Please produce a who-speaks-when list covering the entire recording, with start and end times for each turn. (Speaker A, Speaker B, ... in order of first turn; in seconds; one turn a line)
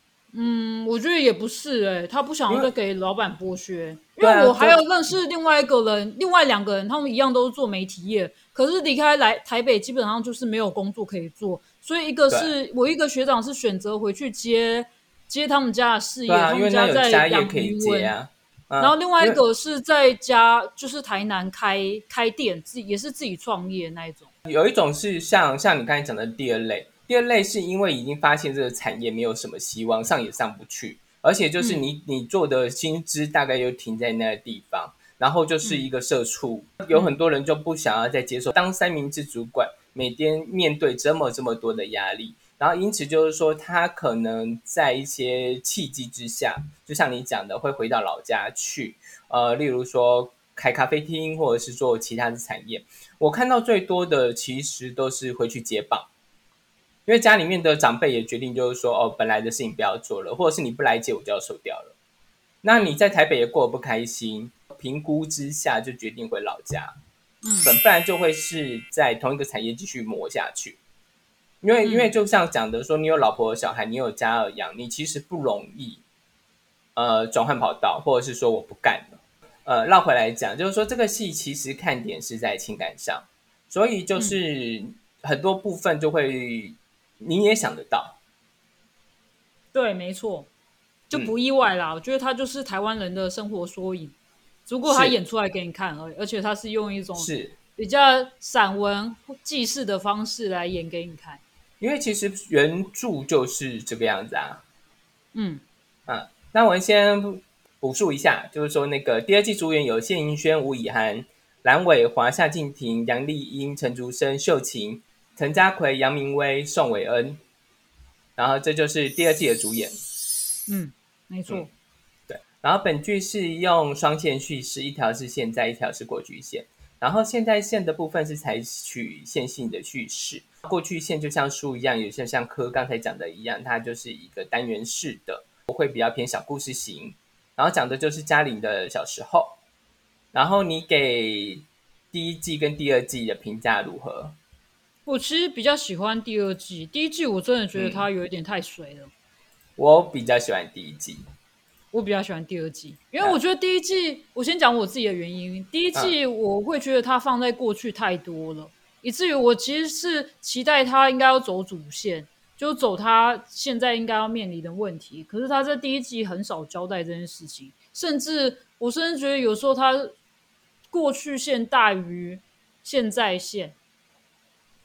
Speaker A: 0.3-18.1
Speaker B: 4.2-4.8
Speaker B: 16.3-19.4
Speaker A: 18.8-24.3
Speaker B: 24.4-56.1
Speaker B: 57.0-61.9
Speaker B: 62.6-66.9
Speaker B: 67.6-70.8
Speaker B: 71.6-76.0
Speaker A: 71.8-72.1
Speaker B: 77.0-88.2
Speaker A: 89.7-90.5
Speaker A: 91.1-94.1
Speaker A: 94.7-101.4
Speaker B: 94.8-95.1
Speaker B: 97.2-97.5
Speaker B: 101.8-104.6
Speaker A: 105.3-105.6
Speaker B: 106.1-117.4
Speaker B: 118.4-120.0
Speaker A: 120.7-121.7
Speaker B: 122.3-139.6
Speaker B: 140.3-144.3
Speaker A: 145.1-149.1
Speaker B: 147.7-148.1
Speaker B: 149.8-151.2
Speaker A: 151.9-170.1
Speaker A: 170.9-173.7